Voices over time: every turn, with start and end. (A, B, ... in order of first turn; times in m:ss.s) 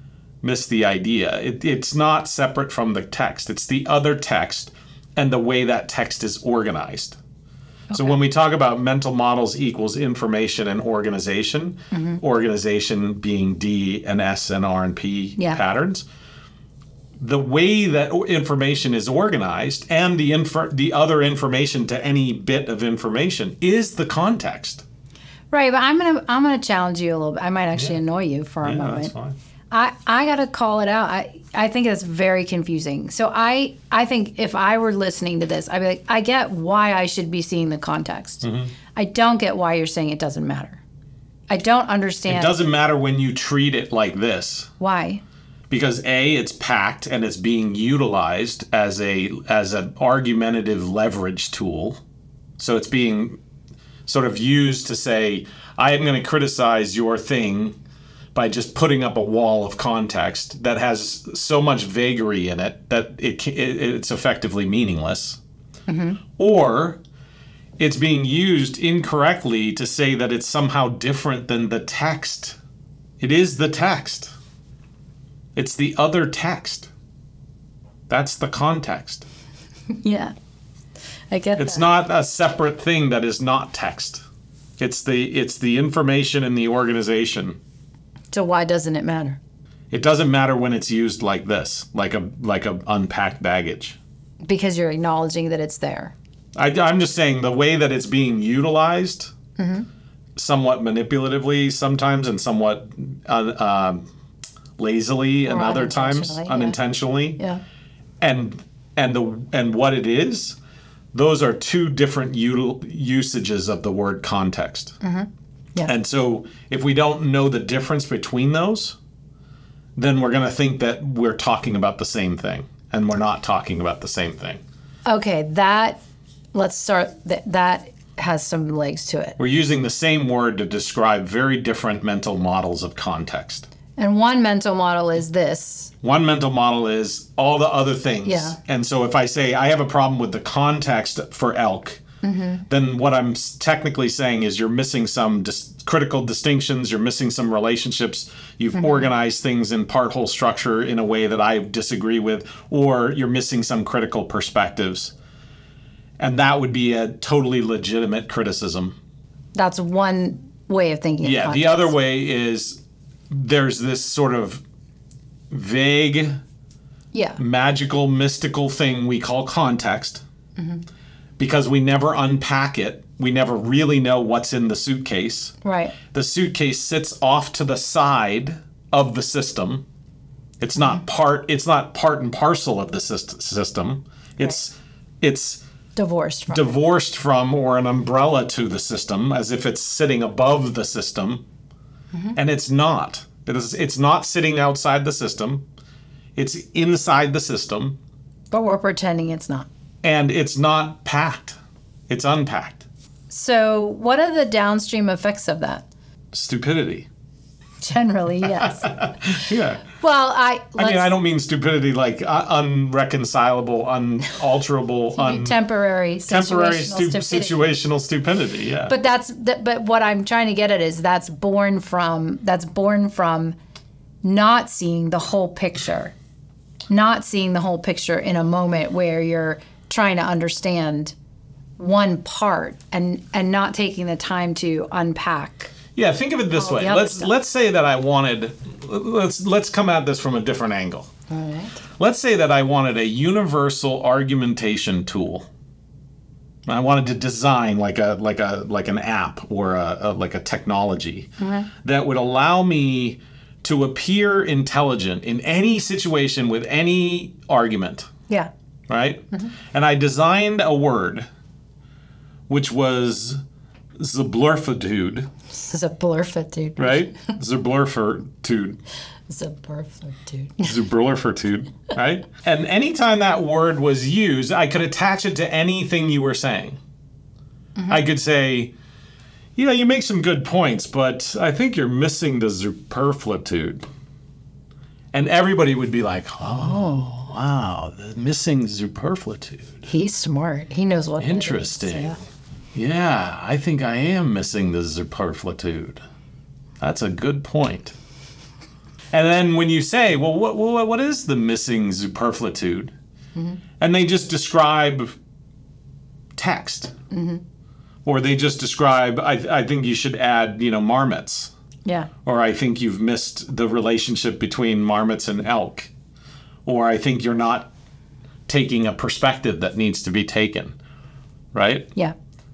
0:00.4-0:07.2 A
0:07.9-0:08.2 B
0:07.9-0:16.1 A
0:11.9-0:12.2 B
0:17.2-0:24.8 A
0:25.5-0:29.1 B
0:28.6-0:29.4 A
0:29.7-0:40.8 B
0:38.4-0:38.7 A
0:41.5-0:42.6 B
0:42.3-0:44.7 A
0:44.8-0:45.2 B
0:45.7-0:52.0 A
0:52.6-0:53.4 A
0:54.1-0:57.8 A
0:58.3-1:05.4 A
1:05.9-1:06.2 B
1:06.4-1:07.0 A
1:07.8-1:12.6 A
1:13.2-1:14.4 A
1:15.6-1:16.9 A
1:18.1-1:19.3 A
1:19.9-1:20.3 B
1:21.3-1:21.8 B
1:21.6-1:24.2 A
1:24.8-1:27.6 A
1:28.3-1:29.4 B
1:29.9-1:34.0 A
1:34.4-1:36.1 B
1:36.6-1:39.3 A
1:39.6-1:39.9 B
1:40.4-1:44.1 A
1:44.8-1:47.4 A
1:45.5-1:46.8 B
1:48.2-1:50.6 A
1:51.1-1:55.0 A
1:55.0-1:55.9 B
1:55.8-1:59.0 A
2:00.0-2:04.6 A
2:05.1-2:06.0 B
2:06.5-2:09.4 B
2:09.4-2:13.7 A
2:14.0-2:15.9 B
2:16.0-2:22.0 A
2:18.2-2:18.6 B
2:22.2-2:22.6 B
2:22.7-2:35.1 A
2:28.8-2:29.1 B
2:36.2-2:39.0 A
2:39.6-2:41.9 B
2:41.2-2:44.6 A
2:45.5-2:46.4 A
2:47.1-2:47.4 B
2:47.4-2:50.2 A
2:50.6-2:50.8 B
2:51.4-2:55.5 A
2:55.6-2:56.0 B
2:56.1-2:59.9 A
3:00.6-3:05.6 A
3:06.0-3:06.8 B
3:06.5-3:11.5 A
3:12.3-3:15.7 A
3:16.4-3:18.0 A
3:18.5-3:19.7 B
3:20.0-3:21.6 A
3:22.1-3:22.8 A
3:23.3-3:25.8 B
3:26.3-3:27.1 A
3:27.8-3:31.1 B
3:28.6-3:29.8 A
3:30.8-3:35.6 A
3:35.2-3:37.6 B
3:36.3-3:38.9 A
3:38.9-3:43.6 B
3:44.2-3:46.1 B
3:46.9-3:51.2 B
3:51.8-3:55.7 B
3:56.0-4:01.1 A
3:56.6-3:57.3 B
4:01.3-4:01.8 B
4:02.0-4:05.5 A
4:06.7-4:18.1 A
4:11.4-4:11.7 B
4:18.9-4:21.3 A
4:22.5-4:23.4 A
4:24.0-4:25.3 A
4:25.5-4:27.3 B
4:26.8-4:28.8 A
4:29.3-4:30.7 B
4:30.6-4:36.8 A
4:37.8-4:38.0 B
4:37.9-4:38.7 A
4:39.6-4:43.9 A
4:45.1-4:49.9 A
4:46.6-4:47.1 B
4:49.9-4:52.2 B
4:51.2-4:52.2 A
4:52.8-4:56.0 A
4:56.8-4:58.0 A
4:59.1-5:02.9 A
5:03.8-5:05.2 A
5:06.4-5:06.9 A
5:07.1-5:07.4 B
5:08.0-5:11.5 A
5:11.8-5:12.1 B
5:12.2-5:15.9 A
5:16.6-5:17.7 A
5:18.5-5:20.8 A
5:21.5-5:21.9 A